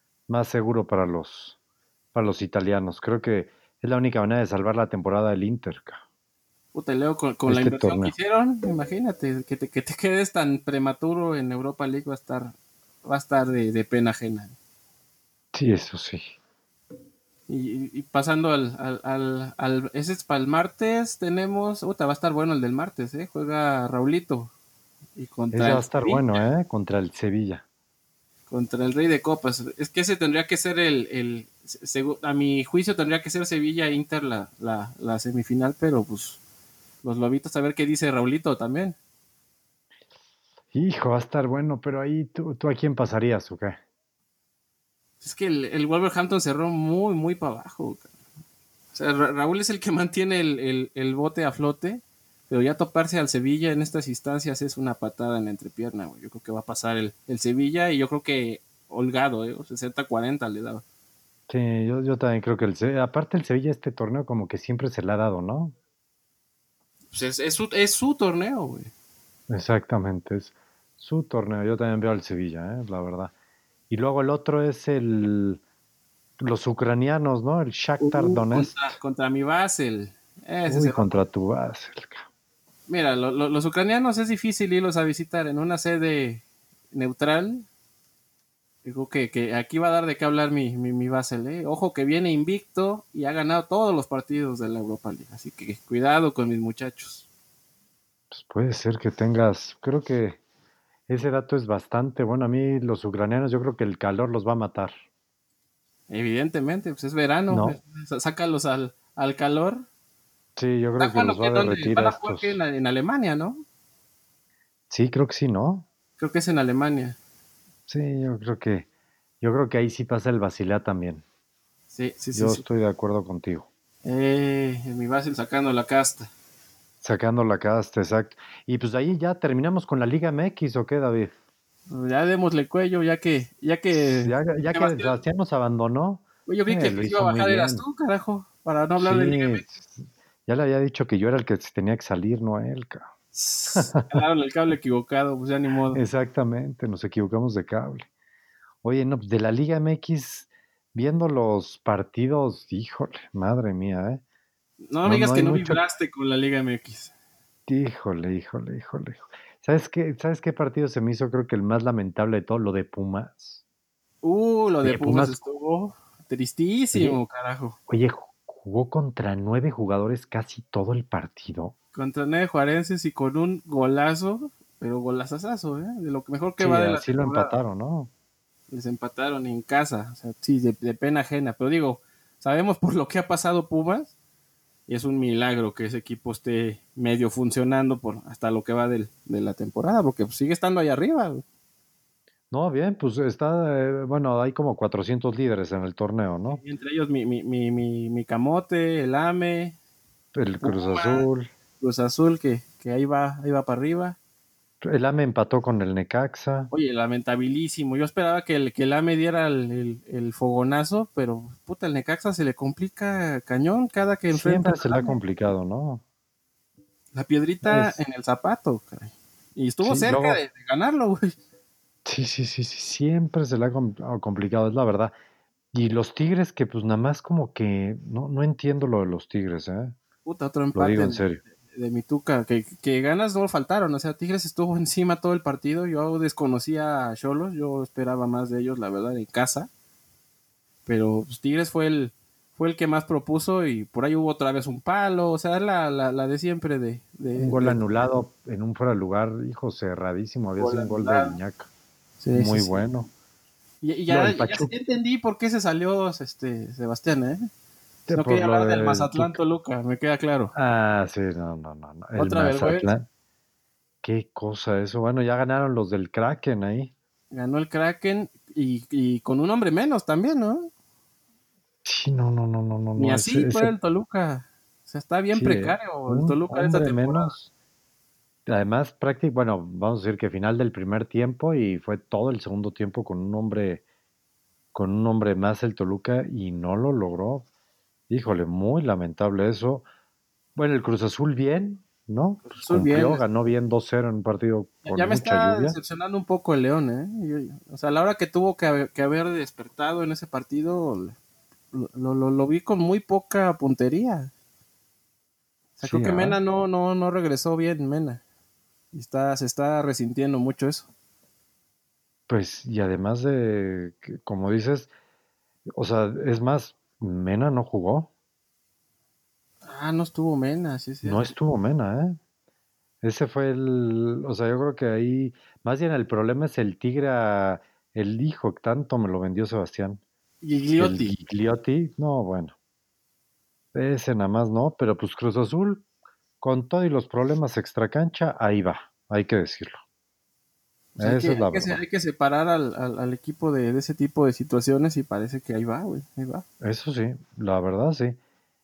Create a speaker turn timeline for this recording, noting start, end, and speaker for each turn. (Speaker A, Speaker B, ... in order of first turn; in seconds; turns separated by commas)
Speaker A: 0.3-1.6, Speaker A: 2.1-6.0, Speaker B: 6.7-14.5, Speaker A: 7.5-8.1, Speaker A: 15.5-16.3, Speaker B: 17.5-24.5, Speaker B: 25.1-26.4, Speaker A: 25.5-27.6, Speaker B: 28.5-36.4, Speaker B: 37.0-39.0, Speaker A: 40.7-43.8, Speaker B: 45.2-48.1, Speaker B: 48.9-60.8, Speaker A: 61.5-65.8, Speaker B: 67.1-68.9, Speaker A: 69.5-73.3, Speaker A: 73.9-75.6, Speaker A: 76.4-79.0, Speaker B: 78.0-81.1, Speaker A: 80.7-82.2, Speaker B: 82.9-87.7, Speaker B: 88.8-97.2, Speaker A: 98.3-100.4, Speaker A: 101.1-105.0, Speaker B: 106.1-109.8, Speaker A: 107.5-107.8, Speaker A: 110.6-112.6, Speaker B: 111.0-113.6, Speaker A: 114.9-115.8, Speaker B: 116.2-117.2, Speaker A: 117.9-118.8, Speaker A: 119.4-121.2, Speaker B: 121.9-122.6, Speaker A: 122.3-123.7, Speaker B: 124.0-126.3, Speaker A: 127.0-131.3, Speaker B: 131.9-135.2, Speaker A: 133.9-137.8, Speaker B: 136.5-139.7, Speaker A: 139.0-143.1, Speaker B: 143.3-146.0, Speaker A: 143.7-144.1, Speaker A: 145.9-148.1, Speaker A: 148.8-154.2, Speaker B: 154.9-157.1, Speaker A: 155.0-155.8, Speaker A: 157.7-163.6, Speaker B: 164.2-167.8, Speaker A: 164.8-165.4, Speaker A: 166.9-167.2, Speaker A: 167.9-171.7, Speaker B: 171.9-177.6, Speaker A: 176.6-178.1, Speaker B: 178.7-184.1, Speaker B: 184.9-191.4, Speaker A: 192.5-196.6, Speaker B: 196.5-199.8, Speaker A: 200.3-201.5, Speaker B: 200.6-201.3, Speaker B: 201.8-204.2, Speaker A: 204.8-206.7, Speaker B: 206.7-215.2, Speaker A: 214.3-216.0, Speaker B: 217.1-221.3, Speaker A: 217.7-218.0, Speaker A: 219.8-220.4, Speaker A: 222.0-225.1, Speaker A: 225.7-229.9, Speaker B: 230.2-239.7, Speaker A: 230.7-231.4, Speaker B: 240.9-247.8, Speaker A: 247.4-251.7, Speaker B: 250.6-251.4, Speaker B: 252.2-252.8, Speaker A: 252.3-253.1, Speaker B: 253.8-257.5, Speaker A: 254.1-254.7, Speaker B: 258.1-260.5, Speaker A: 258.1-259.4, Speaker A: 260.5-263.1, Speaker B: 262.1-262.9, Speaker A: 264.0-266.9, Speaker B: 267.3-270.7, Speaker A: 271.8-273.7, Speaker B: 273.0-277.3, Speaker A: 275.3-277.5, Speaker A: 278.5-283.8, Speaker A: 284.7-287.4, Speaker A: 288.1-289.9, Speaker A: 290.6-295.8, Speaker B: 292.4-293.2, Speaker B: 294.8-301.2, Speaker B: 301.7-304.3, Speaker B: 305.8-308.2, Speaker A: 305.8-306.4, Speaker B: 308.9-310.9, Speaker A: 312.3-314.9, Speaker A: 315.7-318.1, Speaker B: 319.6-321.3, Speaker A: 321.0-322.2, Speaker A: 323.0-330.0, Speaker B: 330.4-331.1, Speaker A: 330.8-332.5, Speaker A: 333.7-335.8, Speaker A: 336.4-339.8, Speaker B: 340.9-346.4, Speaker A: 341.0-341.8, Speaker A: 346.6-348.2